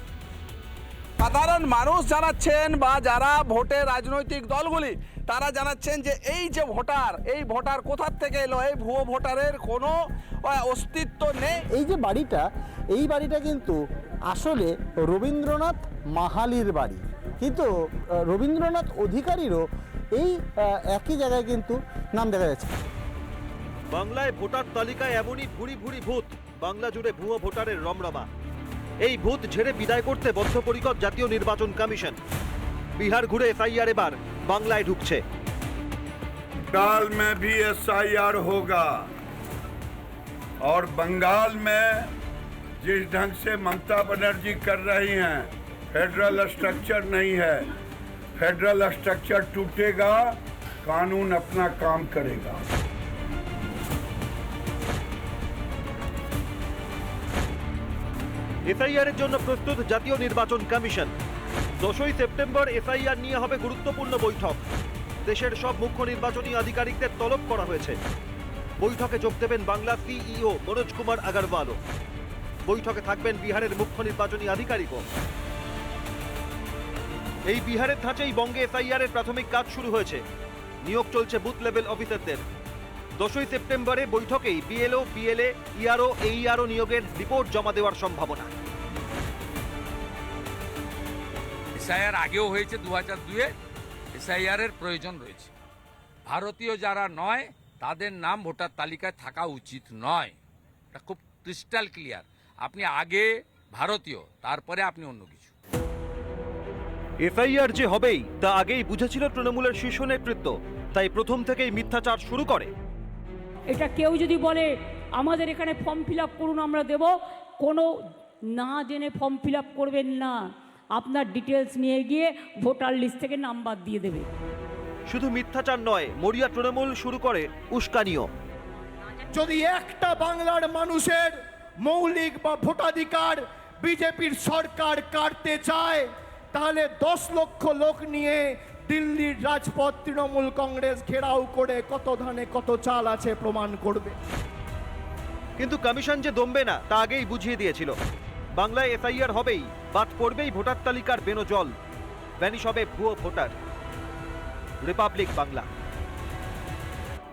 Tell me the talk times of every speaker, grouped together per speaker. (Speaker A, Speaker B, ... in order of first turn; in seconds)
Speaker A: 1.2-11.6
Speaker B: 11.7-13.8, 14.3-17.7, 18.3-19.6, 20.2-22.7
Speaker C: 23.9-28.3, 29.0-32.2, 33.0-35.2, 58.7-61.1, 61.8-64.6, 65.3-68.0, 68.8-71.8, 72.7-75.0, 77.5-80.2, 80.8-82.4, 83.2-88.5, 107.2-112.7, 125.1-128.3, 145.6-147.9, 148.6-151.7, 152.4-153.6, 154.8-155.7
Speaker D: 36.7-39.1, 40.6-42.1, 42.8-47.7, 48.4-52.6
Speaker E: 91.8-93.5, 94.2-95.5, 96.3-100.4, 100.9-105.5
Speaker F: 113.7-117.9, 118.6-120.4, 121.0-124.3
Speaker G: 129.3-144.2